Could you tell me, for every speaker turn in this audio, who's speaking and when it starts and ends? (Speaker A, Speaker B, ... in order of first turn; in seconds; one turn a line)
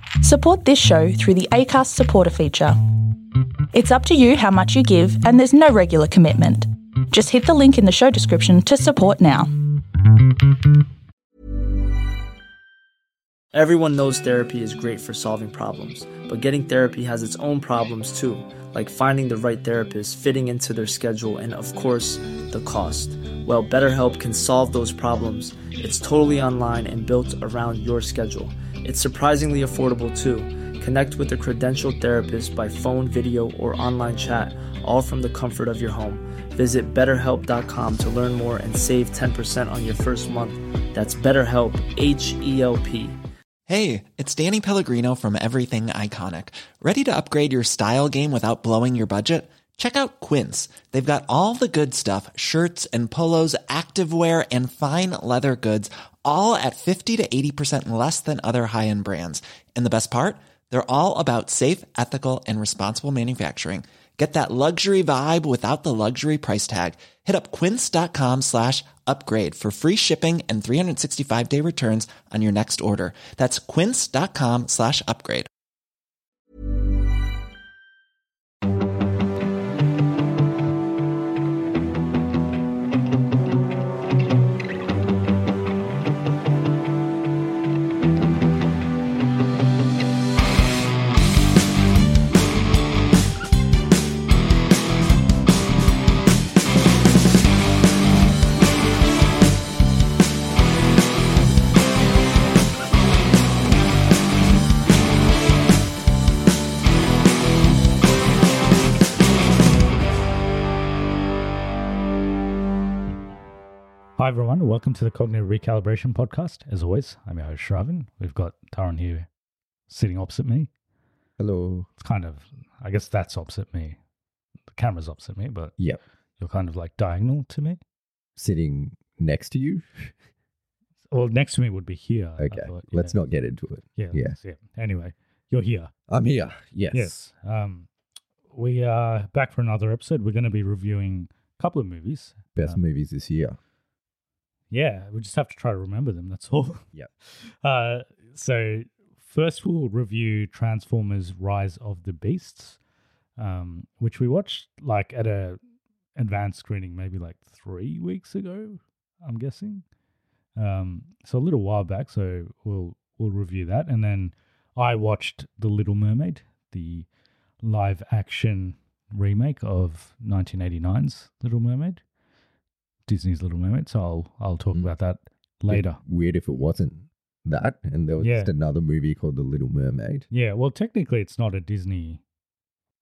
Speaker A: 0.2-3.1
Speaker A: 3.7-9.7
Speaker B: 13.5-43.2
Speaker C: 43.7-75.5
Speaker D: 114.2-119.3
Speaker D: 119.9-120.7
Speaker E: 121.4-121.9
Speaker D: 122.0-124.0
Speaker D: 124.7-125.7
Speaker D: 126.4-127.8
Speaker E: 128.3-130.1
Speaker D: 131.1-133.2
Speaker E: 132.4-134.4
Speaker D: 134.0-135.9
Speaker E: 136.1-137.2
Speaker D: 136.9-137.9
Speaker D: 138.5-142.8
Speaker E: 142.5-143.6
Speaker D: 144.7-152.8
Speaker D: 153.4-155.6
Speaker D: 156.2-159.8
Speaker D: 160.6-167.1
Speaker D: 167.6-172.0
Speaker D: 173.1-176.0
Speaker E: 175.7-180.3
Speaker D: 178.2-178.5
Speaker D: 180.3-182.2